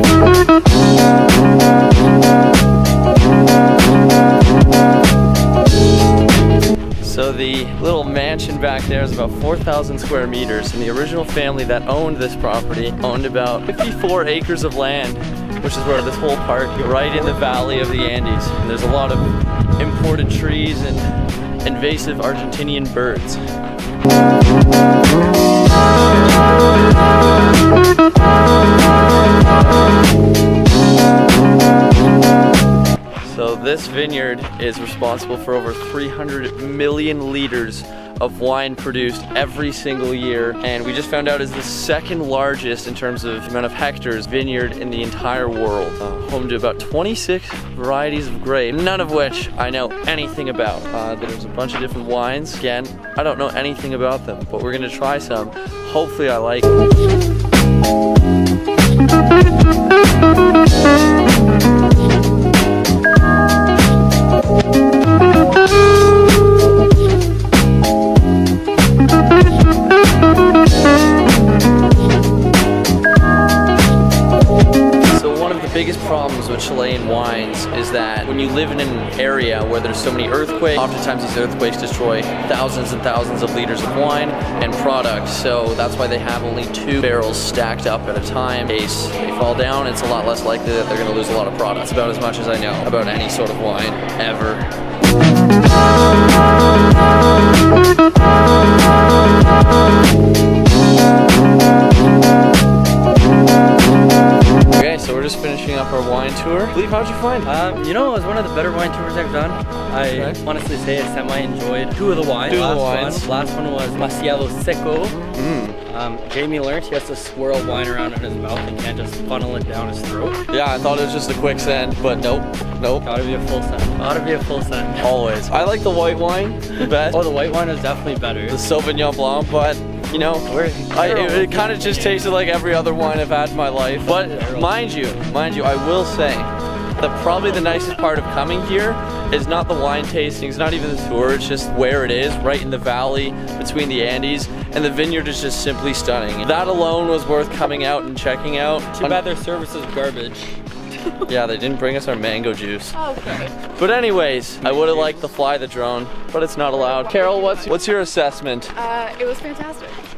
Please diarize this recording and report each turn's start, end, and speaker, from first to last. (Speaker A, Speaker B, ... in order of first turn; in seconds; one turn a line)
Speaker A: 7.0-21.1
Speaker A: 21.6-23.4
Speaker A: 33.2-56.7
Speaker A: 75.1-94.7
Speaker A: 104.7-107.5
Speaker B: 107.4-115.2
Speaker A: 110.1-110.4
Speaker A: 112.4-113.3
Speaker A: 115.3-115.8
Speaker B: 115.9-120.4
Speaker A: 120.5-123.1
Speaker B: 123.0-125.1
Speaker A: 125.0-127.2
Speaker B: 126.8-128.6
Speaker A: 128.5-149.2
Speaker B: 130.5-132.2
Speaker B: 134.1-134.7
Speaker B: 148.9-150.6
Speaker A: 151.3-153.0
Speaker C: 152.9-153.6
Speaker A: 153.6-158.8
Speaker B: 154.6-155.2
Speaker C: 156.7-157.7
Speaker C: 158.8-160.0